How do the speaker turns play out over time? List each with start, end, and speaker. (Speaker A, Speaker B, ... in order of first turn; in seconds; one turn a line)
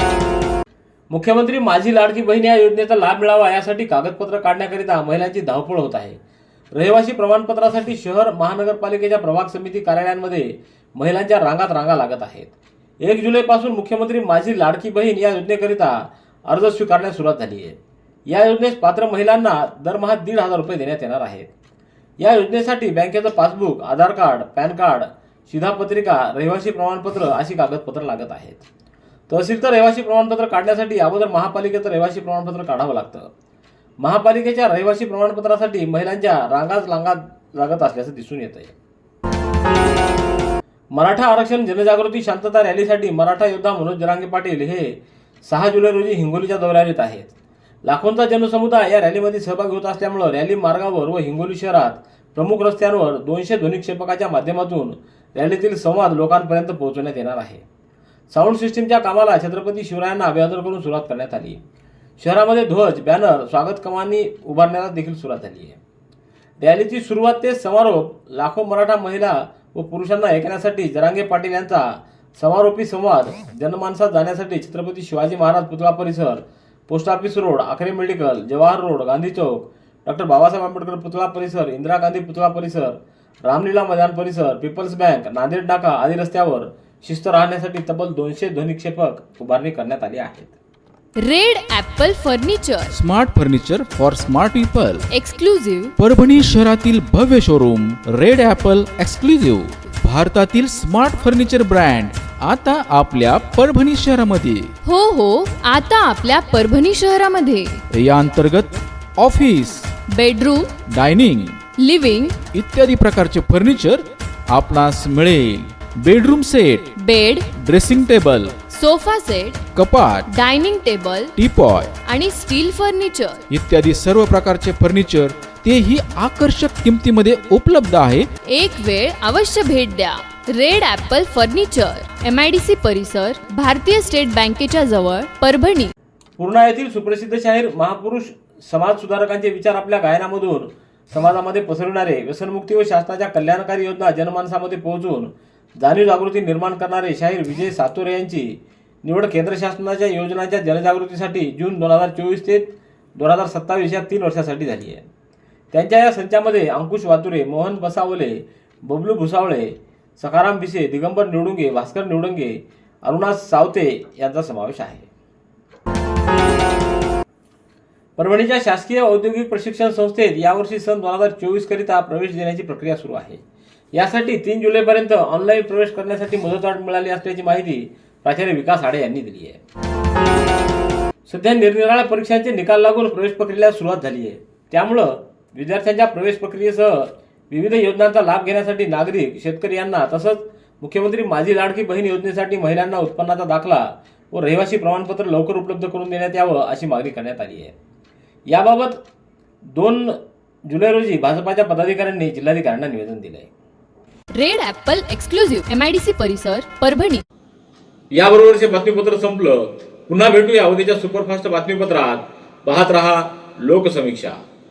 Speaker A: 1.1-6.2
Speaker A: 6.7-21.5
Speaker A: 22.2-28.6
Speaker A: 29.3-33.3
Speaker A: 34.0-38.7
Speaker A: 40.9-47.4
Speaker A: 47.9-57.6
Speaker A: 58.3-61.6
Speaker A: 62.2-65.8
Speaker A: 66.6-90.5
Speaker B: 91.2-93.0
Speaker C: 92.9-95.0
Speaker B: 95.1-95.9
Speaker C: 96.0-104.7
Speaker B: 104.8-107.8
Speaker C: 107.9-110.0
Speaker B: 110.1-110.8
Speaker C: 110.8-111.6
Speaker B: 111.8-112.4
Speaker C: 112.5-116.9
Speaker B: 117.0-117.5
Speaker C: 117.5-118.6
Speaker B: 118.6-119.7
Speaker C: 119.7-120.3
Speaker B: 120.3-121.3
Speaker C: 121.4-122.0
Speaker B: 122.0-123.4
Speaker C: 123.5-128.3
Speaker B: 128.4-135.9
Speaker A: 136.4-155.1
Speaker A: 155.7-165.1
Speaker A: 168.2-173.4
Speaker A: 173.9-179.6
Speaker A: 181.3-197.8
Speaker A: 198.5-199.0
Speaker A: 199.7-200.2
Speaker A: 200.7-203.5
Speaker B: 204.4-207.2
Speaker A: 208.1-214.4